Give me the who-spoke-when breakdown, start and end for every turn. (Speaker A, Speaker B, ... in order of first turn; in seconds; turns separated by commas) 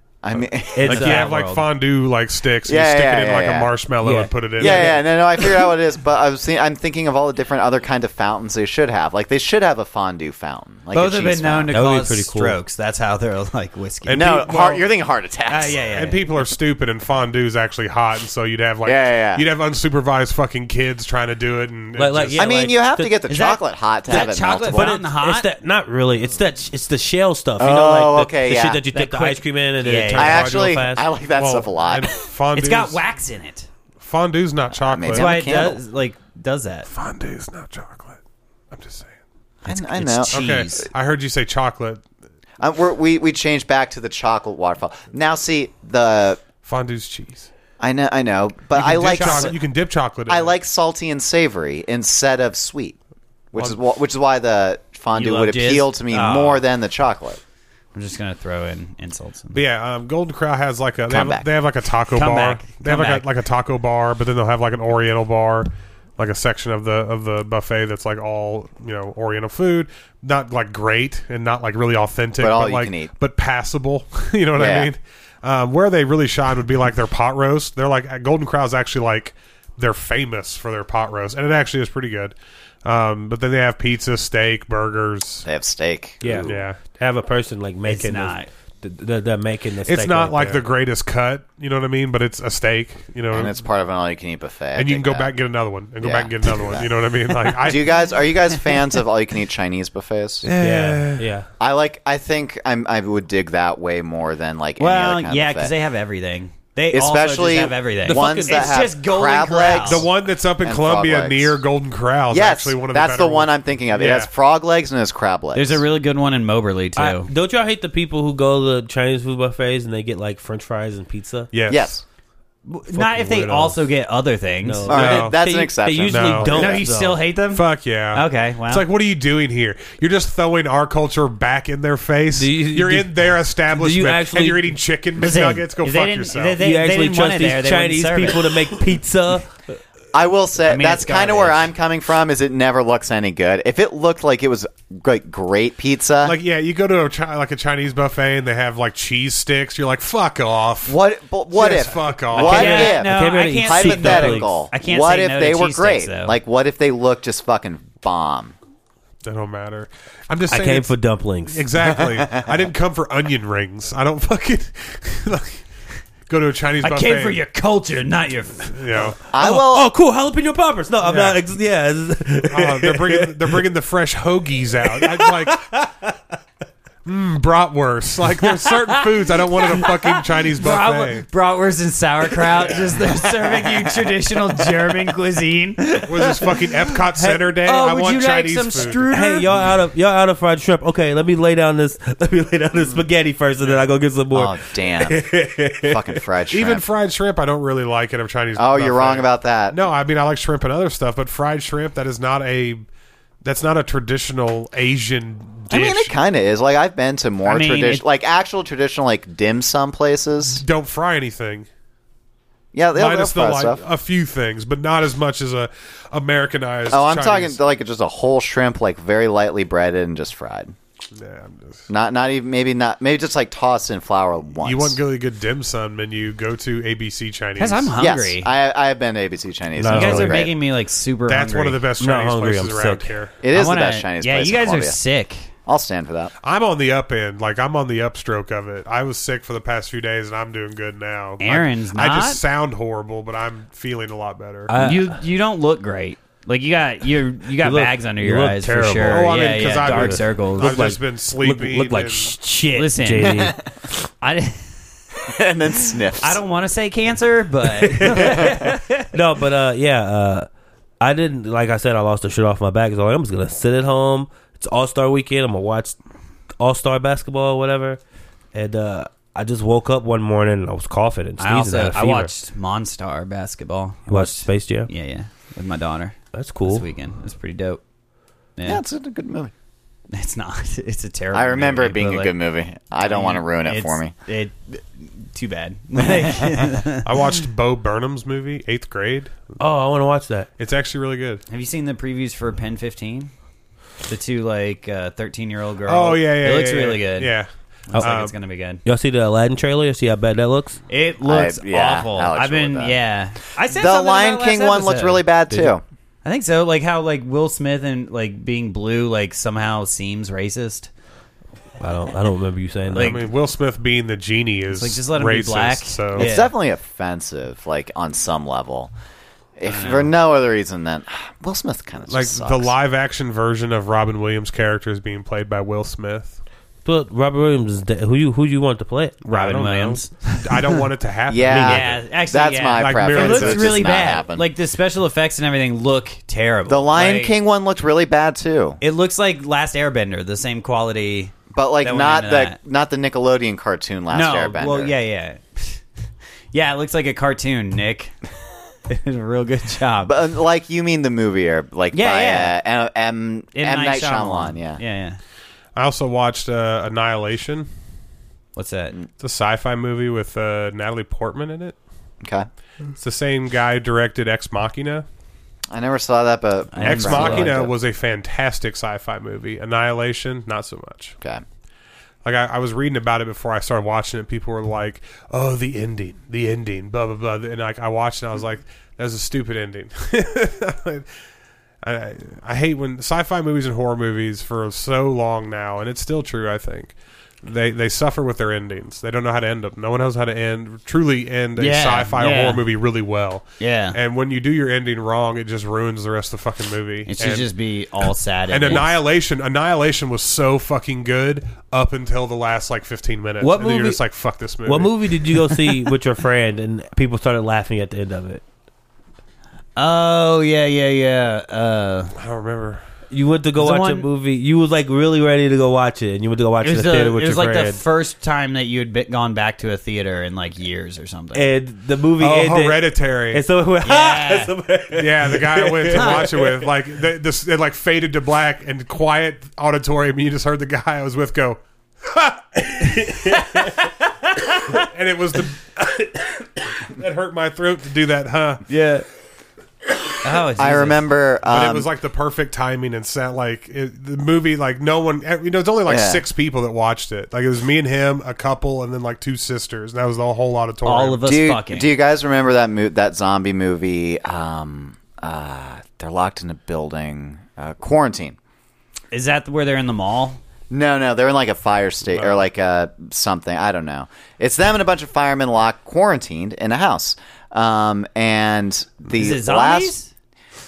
Speaker A: 0.2-0.9, Speaker B: 0.8-1.3, Speaker C: 0.8-5.0, Speaker D: 0.8-1.7, Speaker A: 2.7-3.7, Speaker B: 4.0-5.0, Speaker A: 4.6-11.7, Speaker D: 10.9-14.3, Speaker B: 11.7-12.6, Speaker C: 14.1-14.9, Speaker A: 14.1-15.8, Speaker D: 15.5-16.2, Speaker C: 15.9-22.5, Speaker A: 18.9-19.4, Speaker B: 22.0-23.1, Speaker A: 22.4-24.9, Speaker D: 23.3-25.5, Speaker B: 24.1-31.1, Speaker A: 27.6-28.8, Speaker D: 28.9-30.5, Speaker A: 30.1-32.1, Speaker C: 30.5-33.0, Speaker D: 32.5-33.7, Speaker C: 34.0-35.3, Speaker A: 34.7-35.8, Speaker D: 35.1-36.9, Speaker C: 36.9-38.2, Speaker C: 38.7-39.1, Speaker A: 39.6-40.5, Speaker D: 39.9-40.9, Speaker C: 40.3-42.0, Speaker A: 42.6-46.4, Speaker C: 46.6-47.5, Speaker A: 47.8-49.6, Speaker C: 48.7-50.5, Speaker D: 49.0-49.6, Speaker A: 50.3-53.0, Speaker A: 53.5-57.4, Speaker D: 55.1-56.7, Speaker D: 57.9-59.6, Speaker C: 59.5-82.3, Speaker A: 61.1-61.5, Speaker D: 62.1-63.3, Speaker A: 72.4-73.1, Speaker A: 74.6-74.9, Speaker C: 82.8-85.5, Speaker A: 85.4-86.5, Speaker B: 86.2-90.6, Speaker C: 86.4-86.8, Speaker D: 87.8-88.5, Speaker C: 89.8-93.5, Speaker A: 93.3-95.3, Speaker C: 94.8-98.2, Speaker A: 96.0-96.9, Speaker A: 97.5-100.5, Speaker C: 100.4-101.3, Speaker B: 100.6-101.5, Speaker A: 101.6-105.7, Speaker D: 104.8-110.0, Speaker A: 106.9-111.6, Speaker B: 108.0-108.8, Speaker C: 109.8-114.3, Speaker A: 112.3-115.8, Speaker D: 115.5-117.3, Speaker B: 117.0-121.5, Speaker C: 121.5-122.0, Speaker A: 121.7-122.0, Speaker D: 122.7-124.9, Speaker B: 122.9-123.8, Speaker B: 124.6-127.2, Speaker A: 124.9-126.8, Speaker C: 124.9-125.4, Speaker C: 126.1-126.6, Speaker D: 126.5-128.8, Speaker C: 127.5-136.6, Speaker B: 132.3-134.8, Speaker D: 135.2-138.5, Speaker B: 136.6-139.5, Speaker A: 140.1-146.4, Speaker D: 140.7-141.7, Speaker C: 146.2-151.0, Speaker A: 150.9-158.6, Speaker C: 151.5-152.8, Speaker D: 152.3-156.4, Speaker B: 152.5-154.6, Speaker C: 159.2-160.9, Speaker B: 160.5-161.7, Speaker C: 161.4-165.6, Speaker A: 162.1-162.4, Speaker C: 166.3-167.4, Speaker D: 166.8-169.1, Speaker C: 168.7-169.2, Speaker A: 169.3-169.9, Speaker B: 169.3-173.7, Speaker C: 171.0-171.4, Speaker C: 172.5-175.6, Speaker B: 174.8-176.4, Speaker C: 177.1-181.2, Speaker D: 180.5-189.5, Speaker C: 186.1-189.1, Speaker B: 189.1-196.2, Speaker A: 194.3-196.8, Speaker C: 196.5-202.8, Speaker A: 198.6-199.8, Speaker C: 203.4-206.1, Speaker A: 205.7-210.6, Speaker D: 207.4-208.1, Speaker C: 210.5-211.7, Speaker A: 212.7-213.8, Speaker C: 212.9-217.6, Speaker A: 216.9-220.7, Speaker C: 221.2-221.9, Speaker A: 221.9-225.0, Speaker C: 224.6-227.9, Speaker D: 227.6-228.5, Speaker A: 228.0-230.5, Speaker B: 229.8-230.5, Speaker D: 229.9-231.8, Speaker C: 231.3-233.3, Speaker B: 232.0-233.1, Speaker A: 233.4-235.0, Speaker D: 233.5-235.5, Speaker A: 235.7-236.3, Speaker C: 236.4-244.7, Speaker D: 241.4-242.4, Speaker B: 244.7-245.2, Speaker D: 244.7-250.8, Speaker B: 247.6-253.6, Speaker C: 248.9-252.3, Speaker D: 252.7-253.5, Speaker D: 254.2-254.8, Speaker A: 255.2-256.4, Speaker D: 256.2-259.1, Speaker B: 257.7-260.5, Speaker A: 258.1-258.6, Speaker B: 261.0-266.0, Speaker B: 266.6-268.0, Speaker B: 268.5-272.3, Speaker D: 271.4-277.8, Speaker B: 274.1-274.9, Speaker B: 276.3-276.8, Speaker D: 278.6-278.8, Speaker A: 278.6-279.5, Speaker D: 280.1-282.3, Speaker A: 281.3-284.1, Speaker D: 283.0-287.1, Speaker A: 286.0-286.6, Speaker C: 287.0-289.4, Speaker B: 289.6-290.5, Speaker C: 290.6-291.4, Speaker D: 291.5-293.3, Speaker D: 294.1-297.3, Speaker C: 295.9-298.3, Speaker D: 297.9-298.8, Speaker B: 298.9-300.8, Speaker D: 300.9-305.2, Speaker A: 301.2-303.0, Speaker A: 303.7-305.8, Speaker D: 306.2-310.9, Speaker B: 311.8-313.2, Speaker D: 312.9-313.2, Speaker C: 312.9-316.3, Speaker D: 314.7-316.5, Speaker A: 316.1-318.9, Speaker A: 319.6-322.7, Speaker D: 319.6-320.1, Speaker C: 322.1-326.4, Speaker B: 326.9-329.5, Speaker D: 329.2-330.8, Speaker C: 329.3-331.9, Speaker A: 331.3-334.5, Speaker B: 331.5-331.8, Speaker D: 331.6-337.3, Speaker C: 332.8-333.9, Speaker A: 336.7-338.8, Speaker D: 338.8-342.6, Speaker A: 341.5-344.9, Speaker D: 344.1-345.8, Speaker D: 346.5-348.1, Speaker D: 348.9-350.1, Speaker A: 350.1-354.8, Speaker D: 351.9-352.6, Speaker D: 353.6-355.2, Speaker C: 355.8-357.7, Speaker D: 358.6-359.0, Speaker C: 359.2-361.8, Speaker A: 362.2-362.5, Speaker C: 363.0-365.1, Speaker A: 365.7-367.7, Speaker D: 366.7-367.6, Speaker C: 366.8-371.2, Speaker C: 372.2-381.1, Speaker C: 381.8-397.5, Speaker D: 391.6-392.6, Speaker D: 393.6-394.0, Speaker D: 397.1-398.9, Speaker C: 398.5-404.9, Speaker B: 403.4-403.9, Speaker B: 404.7-408.4, Speaker D: 409.8-412.1, Speaker C: 412.2-412.8, Speaker B: 413.1-417.8, Speaker D: 413.6-414.1, Speaker D: 416.6-421.5, Speaker B: 421.3-426.7, Speaker C: 422.2-423.4, Speaker D: 423.8-424.5, Speaker C: 424.9-433.1, Speaker D: 425.9-426.2, Speaker B: 432.8-433.9, Speaker C: 434.7-438.6, Speaker D: 438.7-439.1, Speaker D: 440.2-441.0, Speaker A: 440.6-441.9, Speaker C: 441.5-451.2, Speaker A: 445.9-446.2, Speaker D: 450.8-451.9, Speaker A: 451.2-458.4, Speaker D: 459.1-460.4, Speaker A: 460.7-469.9, Speaker C: 462.1-462.4, Speaker D: 469.1-470.1